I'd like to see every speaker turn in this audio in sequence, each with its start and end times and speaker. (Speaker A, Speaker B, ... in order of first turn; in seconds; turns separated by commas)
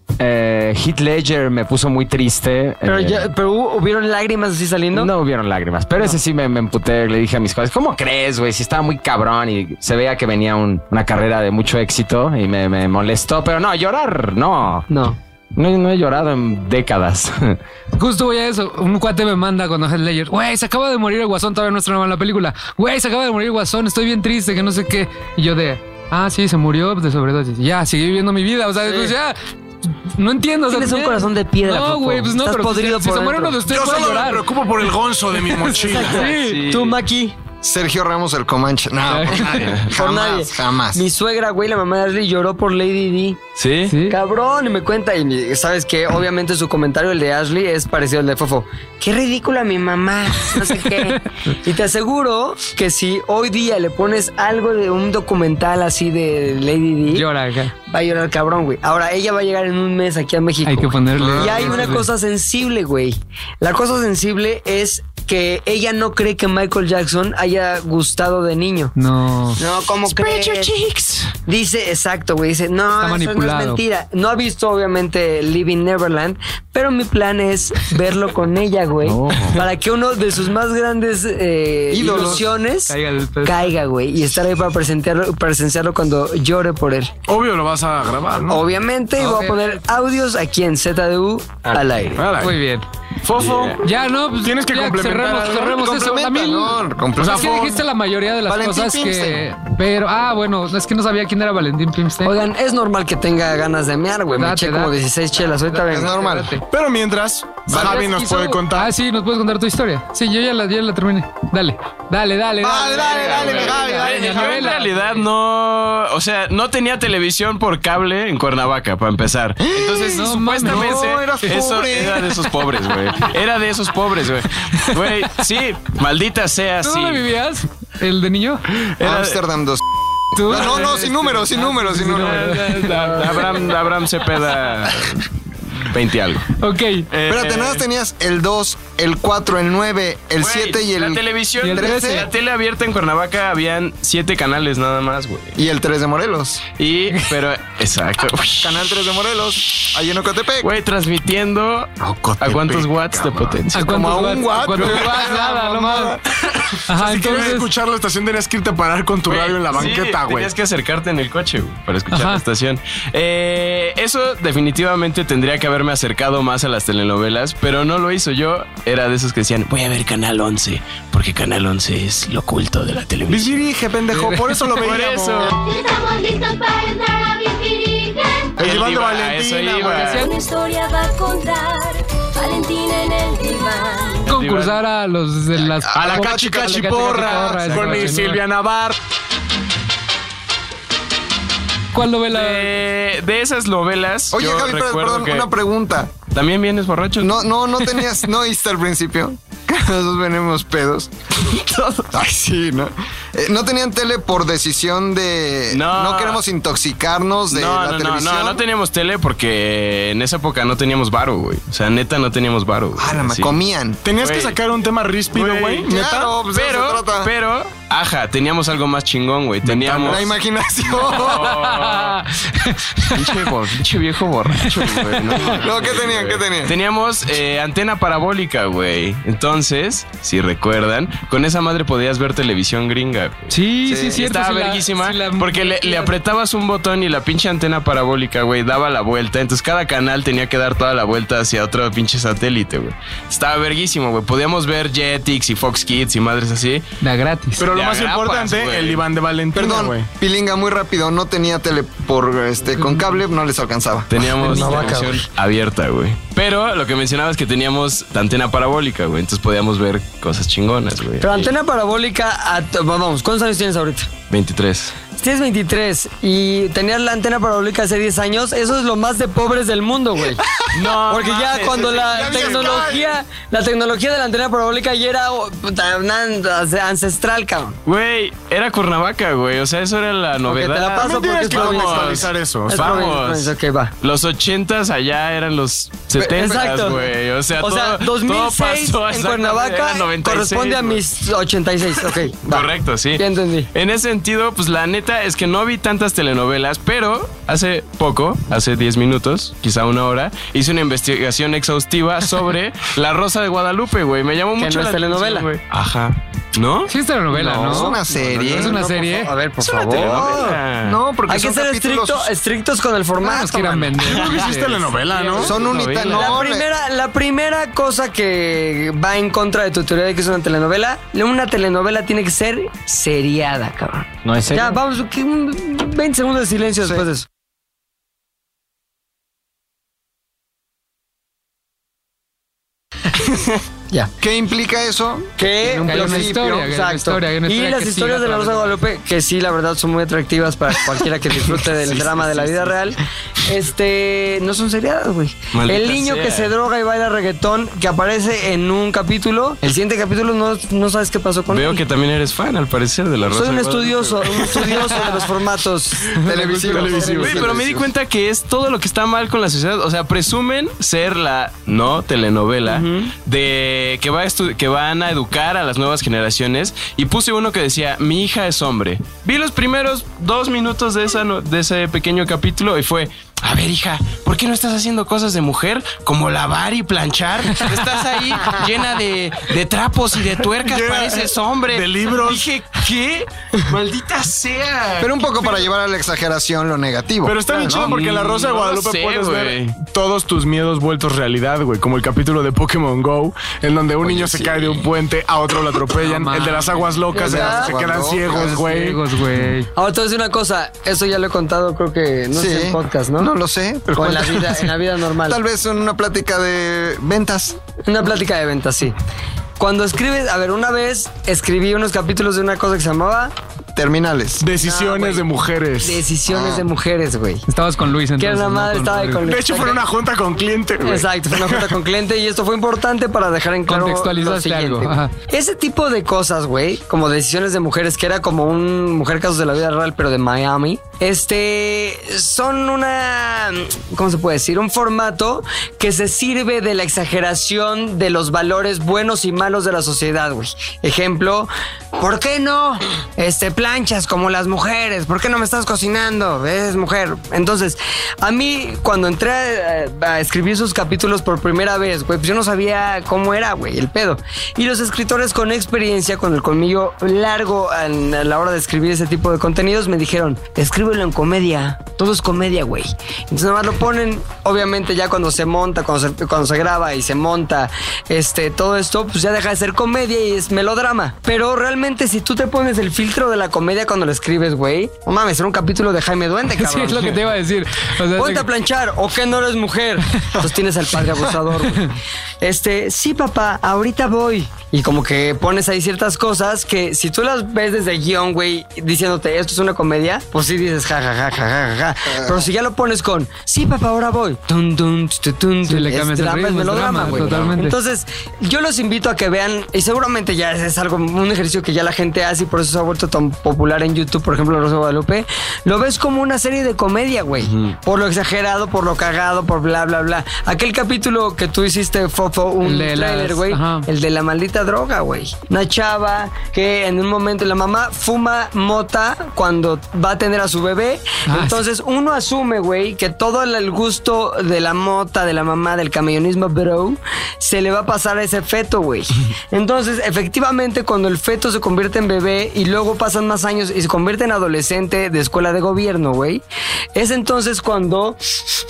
Speaker A: 0.2-3.3, Speaker B: 2.9-5.1, Speaker A: 4.9-14.9, Speaker B: 14.9-15.2, Speaker A: 15.6-17.6, Speaker C: 18.0-29.4, Speaker B: 28.9-29.1, Speaker C: 30.1-34.5, Speaker B: 30.7-33.6, Speaker D: 33.7-36.3, Speaker C: 35.5-36.7, Speaker B: 35.8-37.4, Speaker E: 36.2-37.0, Speaker F: 37.6-41.0, Speaker C: 39.1-39.7, Speaker B: 39.9-43.4, Speaker E: 43.6-44.0, Speaker C: 43.9-44.2, Speaker B: 44.1-57.3, Speaker C: 50.5-51.2, Speaker C: 57.1-57.7, Speaker B: 57.8-68.9, Speaker C: 60.7-62.1, Speaker F: 61.1-61.9, Speaker C: 69.0-69.6, Speaker B: 69.6-70.7, Speaker E: 70.1-71.3, Speaker B: 71.5-87.1, Speaker C: 73.0-73.8, Speaker A: 79.0-79.6, Speaker F: 81.9-82.5, Speaker C: 82.9-83.7, Speaker D: 87.3-88.6, Speaker B: 88.5-92.3, Speaker C: 89.2-89.8, Speaker D: 92.2-92.6, Speaker C: 92.4-92.9, Speaker D: 93.2-93.8, Speaker E: 93.3-93.8, Speaker C: 93.8-102.5, Speaker D: 94.4-95.8, Speaker F: 95.7-97.8, Speaker D: 97.2-97.8, Speaker F: 98.5-99.4, Speaker B: 102.2-106.2, Speaker C: 104.4-105.0, Speaker C: 105.7-106.6, Speaker F: 105.9-106.6, Speaker D: 106.7-108.9, Speaker F: 107.7-108.0, Speaker C: 107.7-115.2, Speaker F: 112.6-114.5, Speaker E: 112.9-127.3, Speaker F: 119.6-122.5, Speaker C: 120.1-121.6, Speaker C: 126.8-128.6, Speaker E: 129.0-129.4, Speaker F: 129.0-129.8, Speaker C: 130.3-133.8, Speaker F: 130.5-132.7, Speaker E: 132.1-136.5, Speaker C: 136.6-137.1, Speaker E: 137.1-137.8, Speaker F: 137.3-142.3, Speaker E: 140.4-145.6, Speaker C: 141.6-142.3, Speaker F: 145.6-146.7, Speaker E: 146.8-148.8, Speaker F: 148.6-150.7, Speaker E: 150.6-154.1, Speaker D: 152.0-153.6, Speaker C: 153.7-156.2, Speaker F: 153.8-156.2, Speaker C: 156.9-157.7, Speaker D: 156.9-160.5, Speaker E: 159.3-173.5, Speaker C: 162.1-162.4, Speaker D: 173.3-175.5, Speaker C: 174.2-174.8, Speaker E: 174.8-175.5, Speaker G: 175.5-178.5, Speaker D: 178.6-180.2, Speaker E: 178.6-180.3, Speaker C: 179.8-180.3, Speaker G: 180.0-184.3, Speaker C: 184.3-188.4, Speaker E: 184.3-184.8, Speaker F: 185.6-186.8, Speaker D: 185.9-189.0, Speaker E: 187.5-188.2, Speaker C: 191.9-192.8, Speaker E: 192.3-195.5, Speaker F: 194.3-196.2, Speaker E: 196.3-197.4, Speaker F: 197.2-208.6, Speaker E: 205.7-206.4, Speaker E: 207.5-213.6, Speaker F: 213.0-214.0, Speaker D: 214.0-216.3, Speaker E: 214.1-214.6, Speaker E: 215.3-215.9, Speaker F: 215.9-217.3, Speaker E: 216.4-220.3, Speaker D: 219.6-220.3, Speaker F: 220.0-221.6, Speaker E: 220.9-222.2, Speaker C: 221.2-223.4, Speaker E: 223.2-246.8, Speaker C: 224.6-225.6, Speaker F: 225.4-226.8, Speaker C: 233.5-236.2, Speaker C: 247.0-247.7, Speaker D: 247.6-250.1, Speaker E: 247.7-249.0, Speaker F: 249.5-254.2, Speaker C: 252.8-253.2, Speaker E: 254.1-261.5, Speaker B: 254.4-255.2, Speaker C: 254.5-254.9, Speaker B: 261.2-264.1, Speaker E: 264.3-265.0, Speaker B: 265.2-270.4, Speaker E: 270.7-272.8, Speaker B: 271.1-277.8, Speaker D: 271.9-273.2, Speaker E: 277.9-291.0, Speaker B: 280.4-283.9, Speaker D: 281.0-283.1, Speaker F: 286.2-287.1, Speaker B: 286.3-293.7, Speaker E: 292.4-306.9, Speaker B: 304.6-305.5, Speaker C: 306.9-308.0, Speaker B: 307.3-310.6, Speaker F: 307.4-308.8, Speaker C: 308.5-309.3, Speaker E: 309.6-311.0, Speaker F: 309.9-312.3, Speaker B: 311.3-314.1, Speaker C: 313.2-315.0, Speaker D: 314.0-315.6, Speaker E: 315.2-316.4, Speaker F: 315.4-316.7, Speaker B: 316.1-327.3, Speaker A: 324.2-324.8, Speaker F: 334.2-335.3, Speaker B: 335.4-351.8, Speaker C: 335.6-338.8, Speaker F: 335.9-336.5, Speaker E: 341.7-342.8, Speaker E: 345.5-346.5, Speaker E: 351.5-355.2, Speaker B: 353.3-357.5, Speaker F: 356.2-357.9, Speaker D: 356.7-357.5, Speaker E: 357.1-385.7, Speaker B: 362.6-363.1, Speaker D: 380.6-382.5, Speaker F: 385.0-387.9, Speaker D: 387.2-399.0, Speaker E: 387.7-389.8, Speaker E: 394.0-394.9, Speaker C: 396.0-397.0, Speaker B: 397.1-397.7, Speaker F: 397.2-398.6, Speaker C: 398.3-399.7, Speaker B: 399.8-403.3, Speaker F: 402.3-404.7, Speaker B: 403.9-405.4, Speaker F: 405.2-407.6, Speaker B: 407.9-409.0, Speaker B: 409.6-413.3, Speaker F: 413.8-414.5, Speaker D: 414.4-416.1, Speaker B: 414.6-415.2, Speaker B: 415.8-417.4, Speaker F: 416.3-416.7, Speaker C: 417.5-419.2, Speaker B: 418.2-419.8, Speaker D: 419.2-421.8, Speaker B: 420.8-477.2, Speaker C: 423.7-425.1, Speaker C: 476.6-478.5, Speaker B: 478.1-536.4, Speaker C: 495.7-497.8, Speaker C: 512.6-513.9, Speaker C: 521.3-521.6, Speaker B: 537.0-538.2